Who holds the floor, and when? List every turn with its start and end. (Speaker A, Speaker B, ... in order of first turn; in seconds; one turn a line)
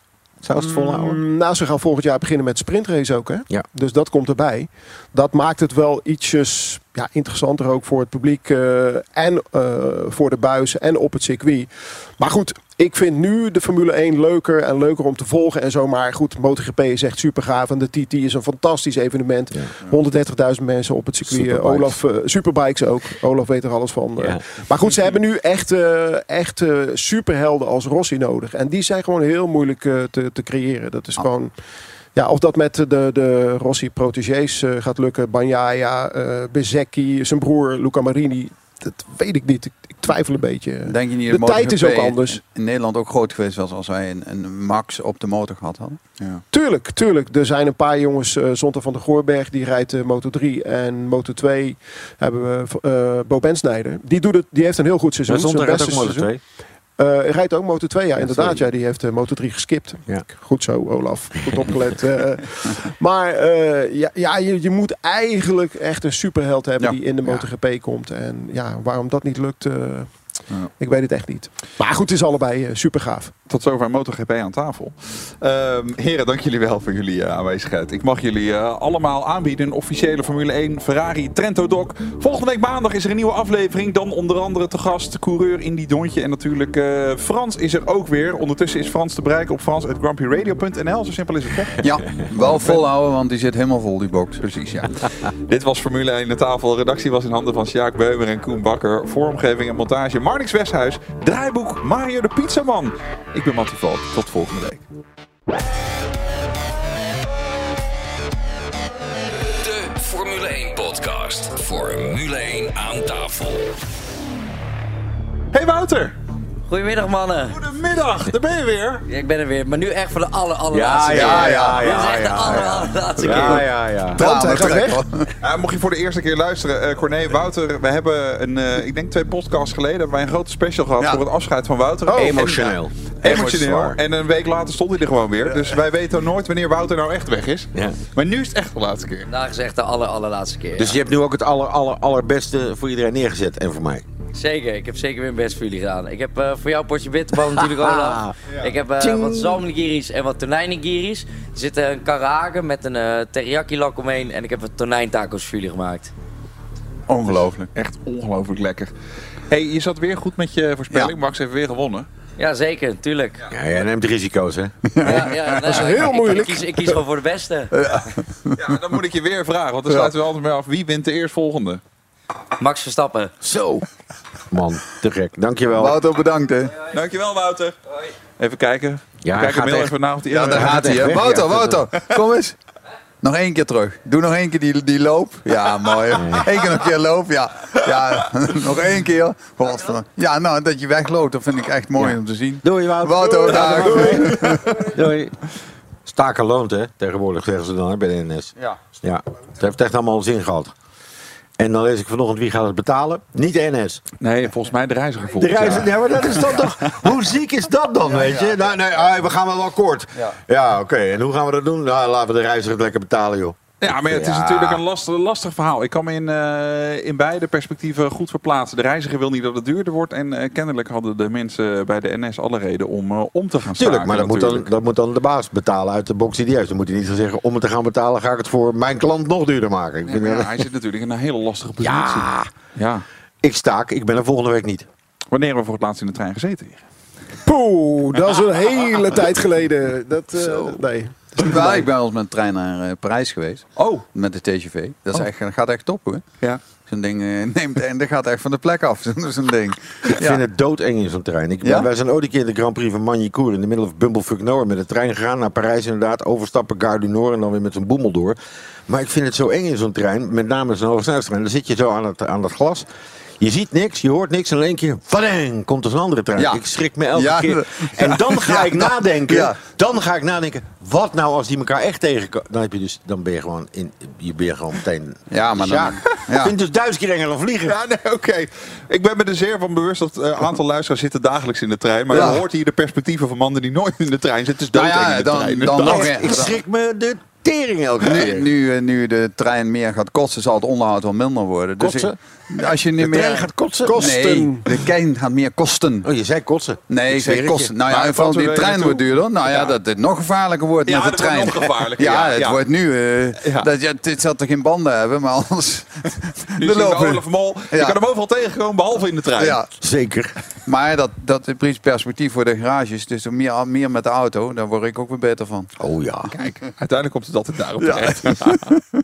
Speaker A: 0.4-1.2
Speaker B: 0.5-31.5
Speaker A: 21.2-22.0
Speaker A: 24.2-24.5
Speaker B: 32.1-42.4
Speaker C: 40.9-46.0
Speaker B: 46.5-73.3
Speaker A: 55.3-56.4
Speaker A: 58.2-58.7
Speaker A: 67.2-67.5
Speaker D: 73.5-92.8
Speaker C: 91.8-94.4
Speaker D: 94.4-104.8
Speaker E: 109.4-113.8
Speaker D: 115.5-116.2
Speaker F: 116.7-117.6
Speaker D: 117.5-119.0
Speaker F: 119.1-123.8
Speaker A: 120.7-124.2
Speaker C: 121.1-121.9
Speaker B: 124.2-125.0
Speaker C: 124.2-125.3
Speaker D: 125.4-139.3
Speaker A: 132.1-134.0
Speaker A: 137.7-138.0
Speaker F: 139.3-141.0
Speaker A: 140.8-144.1
Speaker F: 144.3-156.1
Speaker A: 147.3-148.3
Speaker A: 149.0-149.6
Speaker C: 157.1-157.7
Speaker D: 157.2-158.9
Speaker D: 159.5-162.1
Speaker F: 162.4-163.4
Speaker A: 163.5-165.3
Speaker F: 165.0-167.7
Speaker B: 165.1-167.0
Speaker C: 167.7-168.7
Speaker D: 168.6-171.8
Speaker F: 172.6-173.3
Speaker A: 173.4-173.8
Speaker A: 174.5-176.0
Speaker C: 175.8-176.8
Speaker D: 176.8-177.8
Speaker D: 178.4-181.3
Speaker A: 179.2-181.8
Speaker C: 180.3-182.6
Speaker C: 183.2-194.8
Speaker A: 186.2-186.5
Speaker A: 192.0-195.4
Speaker D: 193.6-194.2
Speaker A: 196.1-200.7
Speaker A: 201.6-204.0
Speaker D: 204.2-206.9
Speaker A: 205.3-214.8
Speaker C: 208.1-208.6
Speaker D: 213.8-224.7
Speaker A: 223.8-230.7
Speaker D: 230.1-233.1
Speaker A: 231.8-232.5
Speaker A: 233.4-234.9
Speaker D: 235.3-236.8
Speaker B: 237.4-241.9
Speaker C: 241.3-246.2
Speaker D: 243.8-244.1
Speaker C: 246.9-250.4
Speaker A: 250.1-258.4
Speaker C: 251.6-251.9
Speaker A: 258.9-262.9
Speaker A: 263.4-277.8
Speaker C: 266.4-266.6
Speaker C: 267.1-269.6
Speaker C: 275.3-276.5
Speaker D: 277.7-286.2
Speaker C: 282.1-282.4
Speaker A: 282.1-282.4
Speaker C: 284.7-286.6
Speaker A: 285.8-288.5
Speaker C: 288.0-296.1
Speaker A: 291.8-294.2
Speaker B: 293.9-294.6
Speaker A: 296.0-297.7
Speaker C: 296.9-308.0
Speaker D: 297.9-299.7
Speaker D: 300.9-302.6
Speaker D: 303.4-303.7
Speaker D: 306.6-309.6
Speaker C: 309.4-309.7
Speaker A: 309.8-310.4
Speaker C: 310.7-315.7
Speaker A: 315.8-316.3
Speaker D: 316.3-318.7
Speaker C: 317.8-318.8